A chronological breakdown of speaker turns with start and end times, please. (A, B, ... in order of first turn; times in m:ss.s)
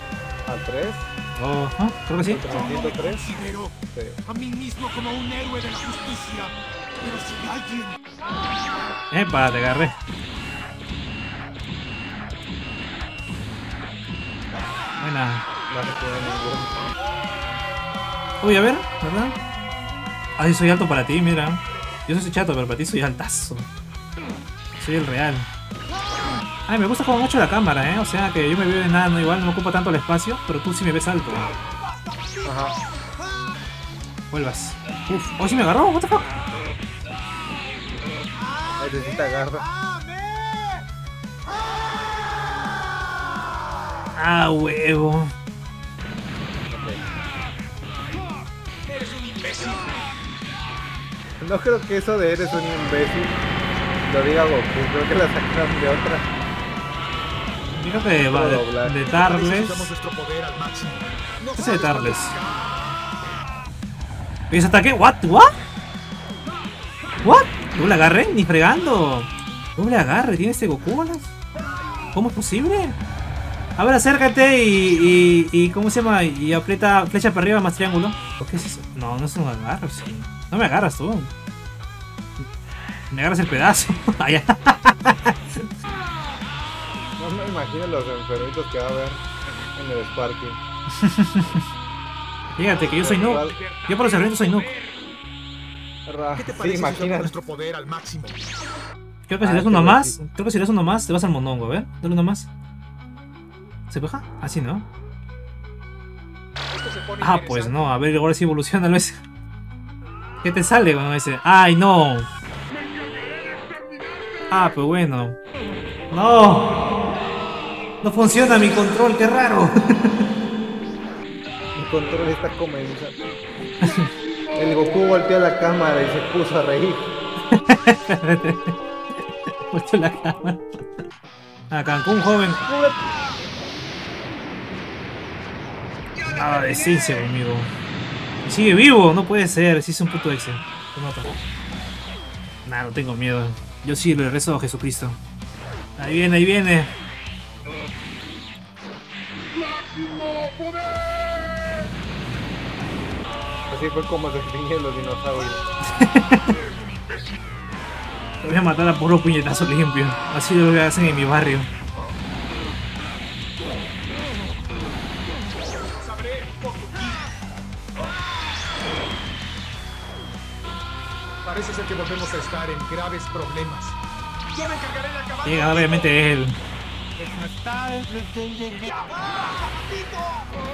0:00.4-0:01.1 A
0:01.4-0:02.4 B
0:02.2-0:03.3 A
0:02.5-0:03.7 C
0:03.9-0:04.2 A
0:04.2-0:08.0 C
0:09.1-0:10.0 B
0:15.0-0:15.4 B
0:15.7-0:16.8 A
0:18.4-0:19.4 B
0:20.4-0:23.7 B
0:24.8-0:25.5 B
0:26.7-0:31.5 B
0:32.4-0:32.7 A
0:34.3-0:36.3 B
0:38.8-0:39.7 A
0:39.8-0:40.8 C
0:44.1-0:45.3 B
0:46.7-0:47.0 A
0:48.9-0:50.0 C
0:51.4-0:53.4 A
0:54.0-0:56.3 A
0:57.7-0:59.9 B
0:58.2-0:59.0 A
0:59.0-1:02.9 C
1:01.6-1:02.3 B
1:04.5-1:05.5 B
1:07.2-1:11.3 B
1:12.1-1:13.0 B
1:13.8-1:21.3 B
1:23.1-1:25.6 B
1:27.2-1:29.2 A
1:29.7-1:30.6 A
1:31.0-1:31.6 B
1:32.6-1:34.7 B
1:32.7-1:33.6 A
1:33.3-1:35.0 C
1:36.0-1:37.3 A
1:36.3-1:38.4 C
1:39.2-1:42.5 B
1:39.4-1:40.2 A
1:43.9-1:44.9 B
1:46.7-1:47.9 C
1:47.2-1:49.2 B
1:50.4-1:52.3 B
1:54.5-1:55.4 B
1:56.1-1:56.6 B
1:58.0-2:00.1 B
2:01.7-2:03.2 A
2:03.8-2:04.1 B
2:04.5-2:07.1 A
2:07.5-2:08.8 B
2:09.7-2:10.8 B
2:11.7-2:12.6 B
2:16.2-2:17.7 B
2:18.4-2:21.4 B
2:22.6-2:25.2 B
2:26.0-2:26.9 B
2:33.7-2:35.6 A
2:36.0-2:36.5 B
2:38.4-2:41.7 B
2:45.9-2:47.3 C
2:51.4-2:54.0 C
2:54.5-2:56.1 C
2:55.4-2:56.6 B
2:57.2-3:00.4 C